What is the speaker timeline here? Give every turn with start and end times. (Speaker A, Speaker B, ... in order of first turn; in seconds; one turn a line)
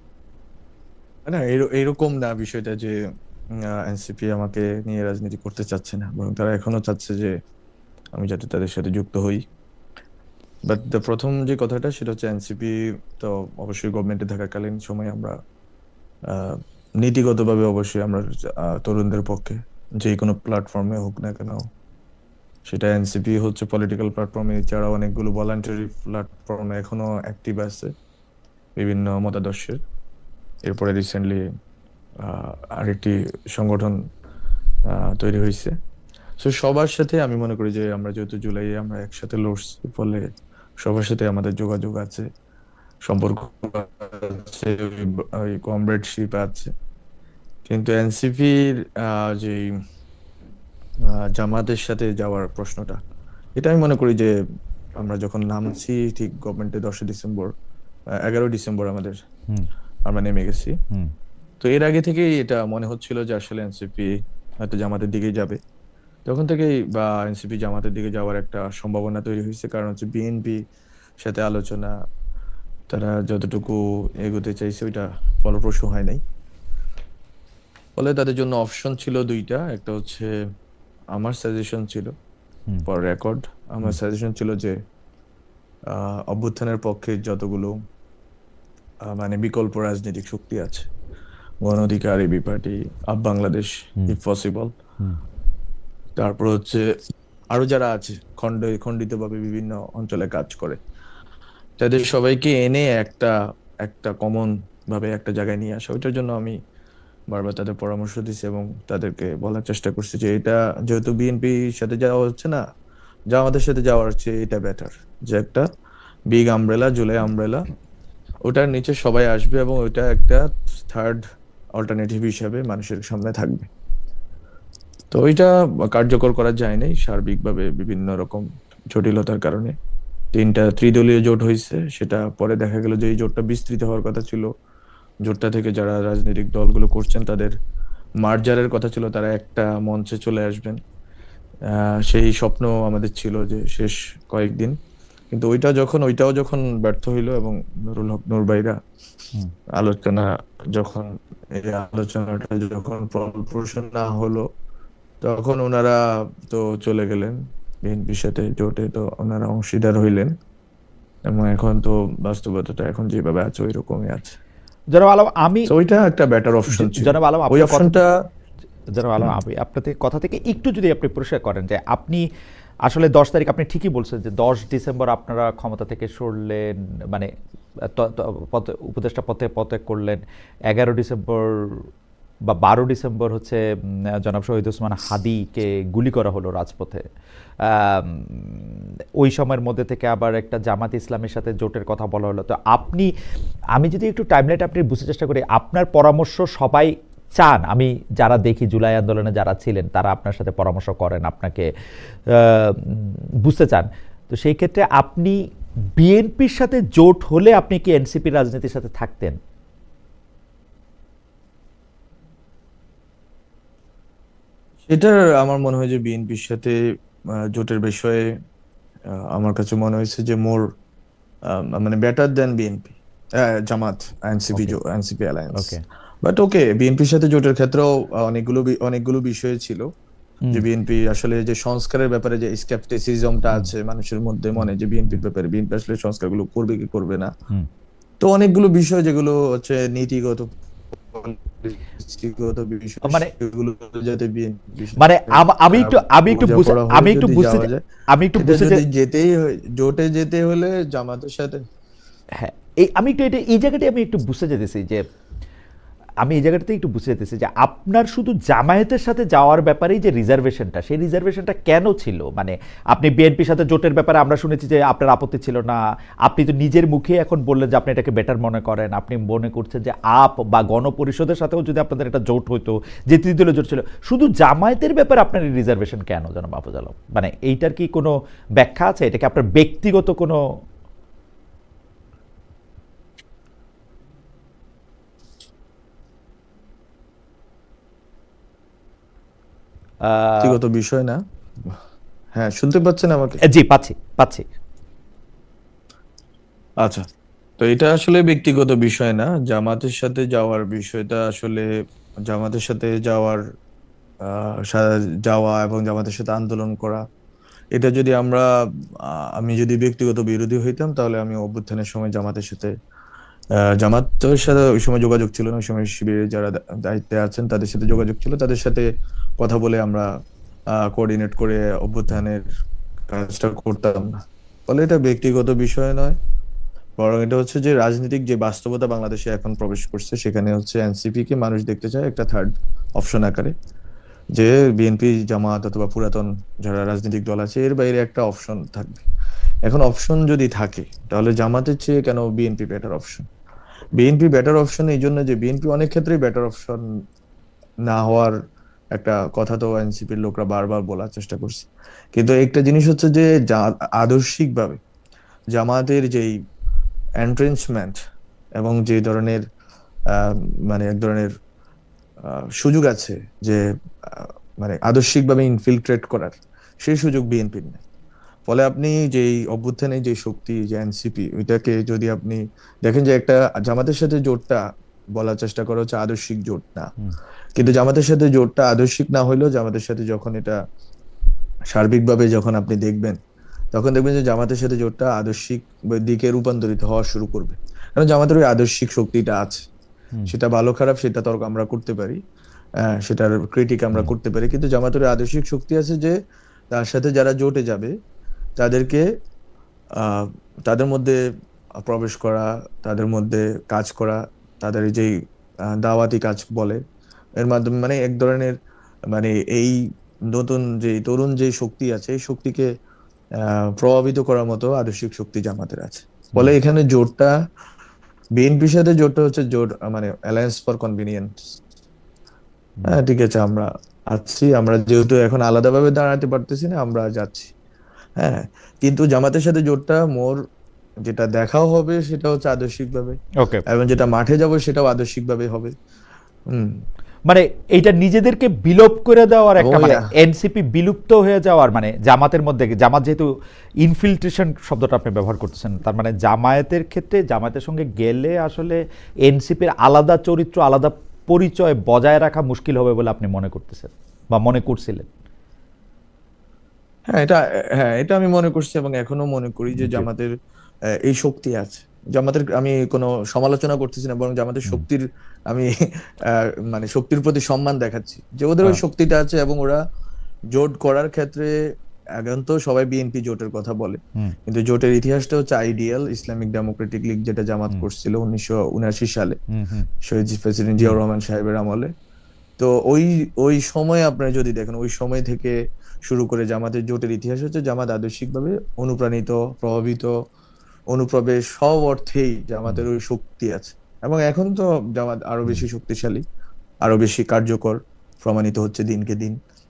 Speaker A: 1.3-2.9
Speaker A: 3.6-7.3
Speaker A: 8.1-9.4
Speaker A: 10.7-15.3
Speaker A: 16.3-21.6
Speaker A: 22.7-27.9
Speaker A: 28.8-29.8
Speaker A: 30.6-31.4
Speaker A: 32.2-34.0
Speaker A: 34.9-35.7
Speaker A: 36.4-40.2
Speaker A: 40.8-42.3
Speaker A: 43.0-46.7
Speaker A: 47.6-49.7
Speaker A: 51.1-53.0
Speaker A: 53.5-54.3
Speaker A: 55.0-57.5
Speaker A: 58.2-59.1
Speaker A: 60.0-60.7
Speaker A: 61.6-65.6
Speaker A: 66.2-70.6
Speaker A: 71.2-71.9
Speaker A: 72.9-76.2
Speaker A: 78.0-80.3
Speaker A: 81.1-82.1
Speaker A: 82.8-84.7
Speaker A: 85.9-87.7
Speaker A: 89.0-90.9
Speaker A: 91.6-94.7
Speaker A: 96.2-96.8
Speaker A: 97.5-100.8
Speaker A: 101.8-106.5
Speaker A: 107.3-112.6
Speaker A: 113.3-115.7
Speaker A: 116.3-117.6
Speaker A: 118.5-121.2
Speaker A: 121.8-123.7
Speaker A: 125.1-129.7
Speaker A: 130.3-134.5
Speaker A: 135.2-137.5
Speaker A: 138.2-140.8
Speaker A: 141.7-144.7
Speaker A: 145.3-148.8
Speaker A: 149.8-154.4
Speaker A: 155.2-160.3
Speaker A: 161.3-164.3
Speaker B: 164.9-165.7
Speaker A: 165.7-168.1
Speaker B: 166.7-167.9
Speaker B: 168.9-172.2
Speaker B: 172.8-177.3
Speaker B: 177.8-181.8
Speaker B: 182.4-183.6
Speaker B: 184.2-187.0
Speaker B: 187.6-193.1
Speaker B: 193.7-201.7
Speaker B: 202.3-205.4
Speaker B: 206.0-209.4
Speaker A: 214.9-216.8
Speaker A: 217.3-218.2
Speaker A: 219.1-220.6
Speaker A: 221.5-225.7
Speaker B: 225.6-225.8
Speaker A: 226.2-229.8
Speaker A: 230.5-237.3
Speaker B: 234.6-235.2
Speaker A: 238.2-240.5
Speaker A: 241.1-247.8
Speaker B: 243.0-243.3
Speaker B: 245.0-248.8
Speaker A: 248.4-251.6
Speaker B: 252.3-255.0
Speaker B: 256.2-280.4
Speaker B: 290.0-290.6
Speaker A: 290.4-291.8
Speaker A: 292.4-293.4
Speaker B: 293.4-294.4
Speaker A: 297.6-301.6
Speaker A: 302.3-303.4
Speaker A: 304.2-307.0
Speaker A: 307.7-308.5
Speaker A: 309.2-312.7
Speaker A: 313.8-318.8
Speaker A: 319.4-320.1
Speaker A: 320.8-322.4
Speaker A: 323.1-324.1
Speaker A: 324.7-326.1
Speaker A: 327.0-333.5
Speaker A: 334.4-339.0
Speaker A: 339.7-343.2
Speaker A: 344.0-346.8
Speaker A: 347.9-348.3
Speaker A: 348.9-354.8
Speaker A: 355.5-356.3
Speaker A: 357.2-358.0
Speaker A: 358.6-359.4
Speaker A: 360.1-361.3
Speaker A: 362.2-367.8
Speaker A: 368.5-374.6
Speaker A: 375.1-376.9
Speaker A: 377.6-380.6
Speaker A: 381.7-383.2
Speaker A: 383.7-389.6
Speaker A: 390.3-392.2
Speaker A: 393.0-396.1
Speaker A: 396.7-397.9
Speaker A: 398.6-399.0
Speaker A: 400.0-401.2
Speaker A: 401.8-405.1
Speaker A: 405.7-406.8
Speaker A: 407.4-408.5
Speaker A: 409.1-409.8
Speaker A: 410.3-412.7
Speaker A: 413.4-417.3
Speaker A: 418.4-421.4
Speaker A: 422.9-427.5
Speaker A: 428.2-430.4
Speaker A: 431.0-435.7
Speaker B: 437.3-443.3
Speaker A: 439.6-440.1
Speaker B: 443.8-455.1
Speaker A: 457.1-460.3
Speaker B: 459.7-460.1
Speaker A: 461.0-465.7
Speaker A: 466.3-469.8
Speaker A: 470.5-471.5
Speaker A: 472.2-479.4
Speaker B: 479.5-479.9
Speaker A: 480.0-481.9
Speaker A: 482.6-485.5
Speaker A: 486.1-490.1
Speaker A: 490.9-496.2
Speaker A: 496.8-499.4